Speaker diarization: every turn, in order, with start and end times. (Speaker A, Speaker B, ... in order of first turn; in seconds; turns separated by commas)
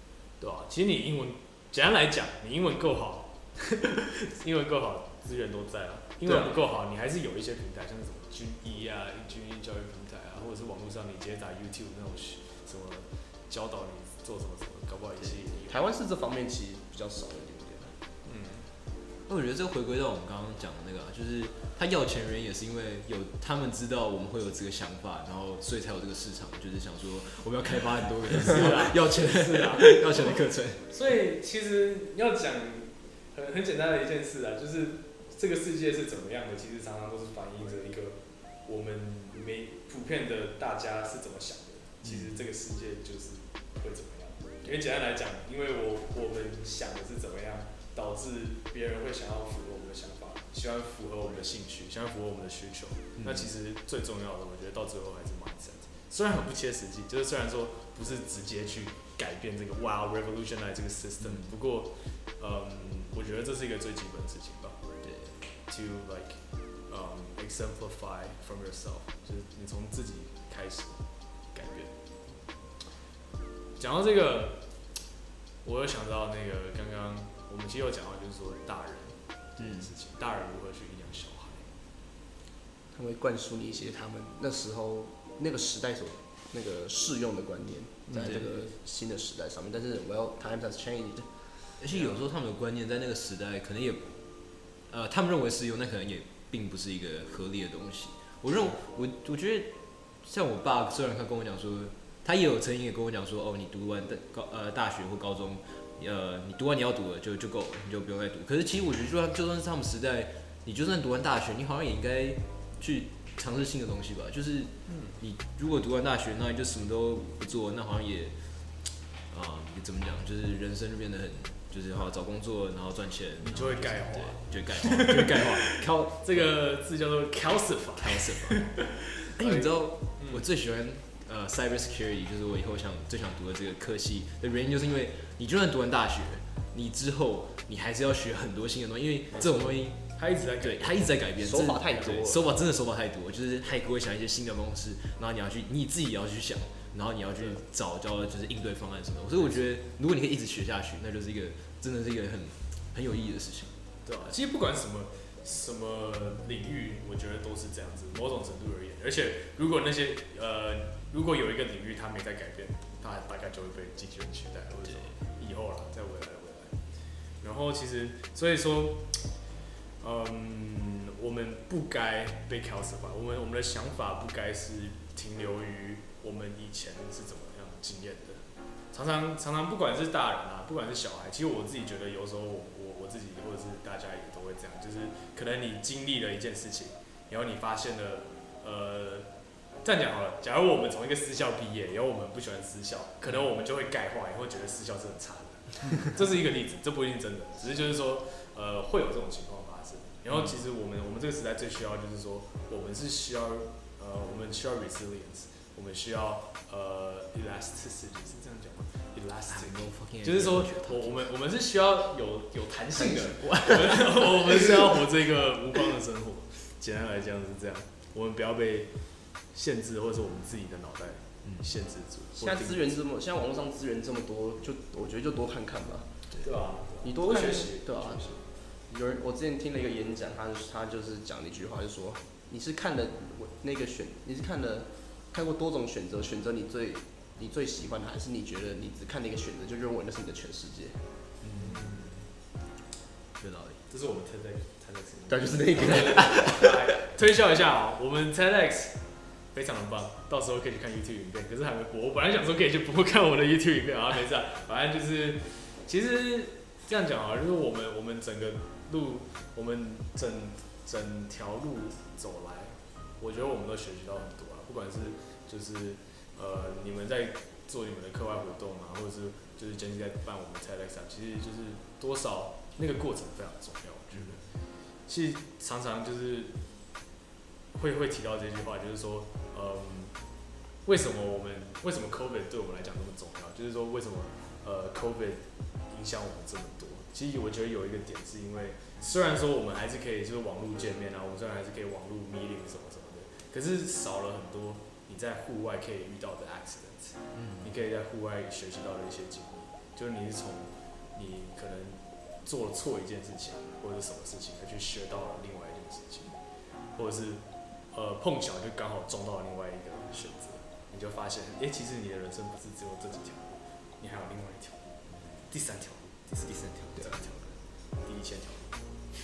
Speaker A: 0.4-15.8, Speaker B: 6.3-6.5, Speaker B: 15.7-17.9, Speaker A: 18.2-18.7, Speaker C: 19.3-30.9, Speaker A: 28.4-64.8, Speaker C: 42.0-42.3, Speaker C: 53.2-53.5, Speaker C: 61.2-61.5, Speaker C: 65.0-65.4, Speaker A: 65.7-71.9, Speaker A: 73.8-74.6, Speaker A: 75.6-81.7, Speaker C: 79.6-79.9, Speaker B: 82.9-91.3, Speaker A: 88.1-88.4, Speaker C: 88.2-88.5, Speaker C: 91.8-94.2, Speaker A: 91.9-92.2, Speaker C: 94.8-118.3, Speaker A: 114.9-115.2, Speaker C: 119.3-126.5, Speaker A: 123.4-130.4, Speaker C: 128.0-128.8, Speaker C: 129.3-153.8, Speaker A: 139.3-141.2, Speaker B: 141.4-142.6, Speaker A: 149.3-149.7, Speaker A: 154.1-166.8, Speaker A: 167.4-169.3, Speaker A: 170.0-189.3, Speaker A: 189.8-218.9, Speaker C: 209.5-211.3, Speaker C: 213.0-214.6, Speaker B: 213.0-213.3, Speaker A: 219.5-222.9, Speaker C: 221.4-221.7, Speaker B: 222.4-226.1, Speaker A: 226.4-228.4, Speaker B: 227.0-228.4, Speaker B: 228.9-241.0, Speaker C: 241.4-242.0, Speaker A: 241.4-242.3, Speaker C: 243.4-243.8, Speaker A: 243.9-274.4, Speaker B: 245.3-246.7, Speaker C: 274.1-274.4, Speaker A: 275.1-276.6, Speaker A: 277.7-280.1, Speaker A: 280.8-306.4, Speaker C: 297.3-297.7, Speaker A: 306.9-318.8